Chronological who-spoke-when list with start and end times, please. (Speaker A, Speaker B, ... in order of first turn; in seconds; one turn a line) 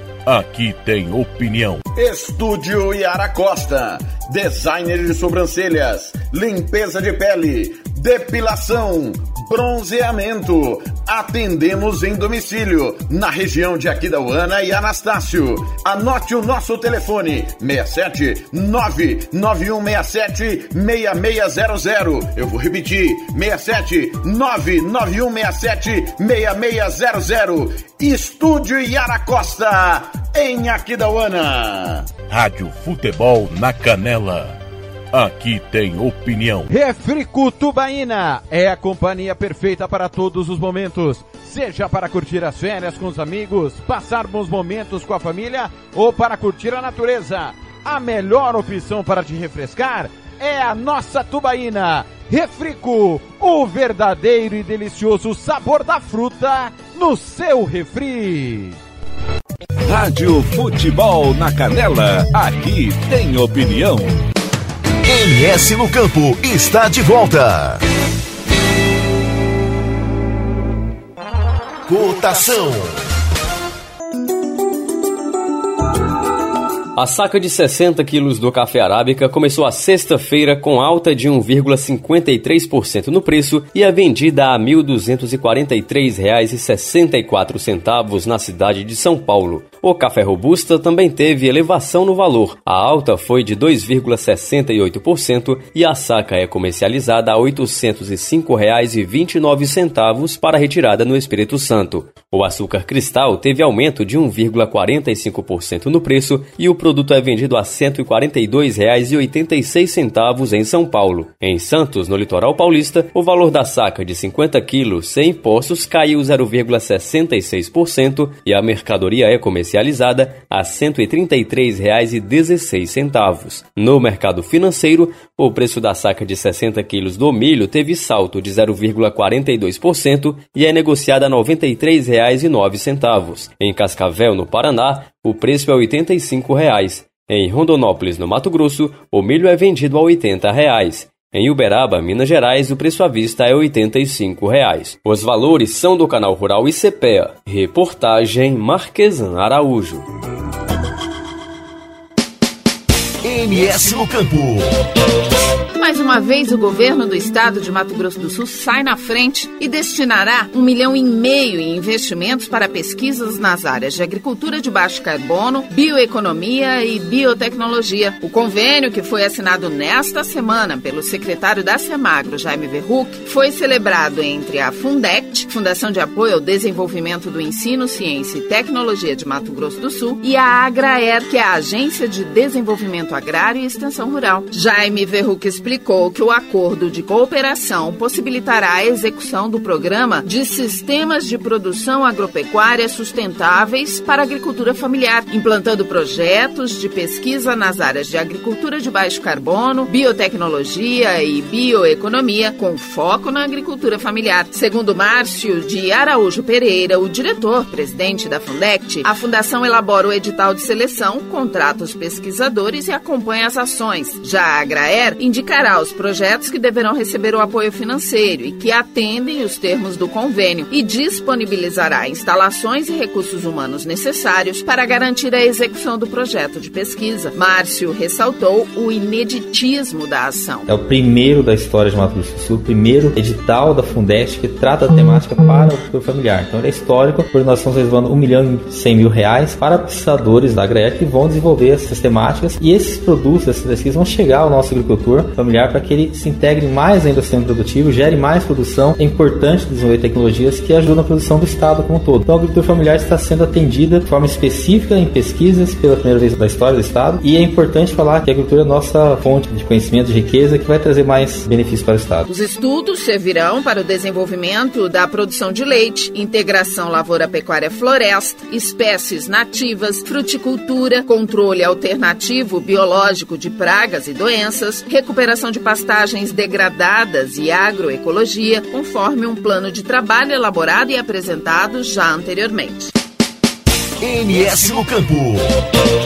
Speaker A: 0.3-1.8
Speaker B: 2.0-32.1
Speaker A: 32.3-34.6
Speaker A: 35.1-36.7
Speaker C: 36.7-58.8
Speaker D: 59.9-64.2
Speaker E: 65.0-67.8
Speaker E: 71.9-73.0
Speaker F: 77.0-150.1
Speaker E: 153.2-154.7
Speaker G: 155.8-230.7
Speaker H: 230.7-262.3
Speaker G: 262.3-282.9
Speaker E: 284.0-285.5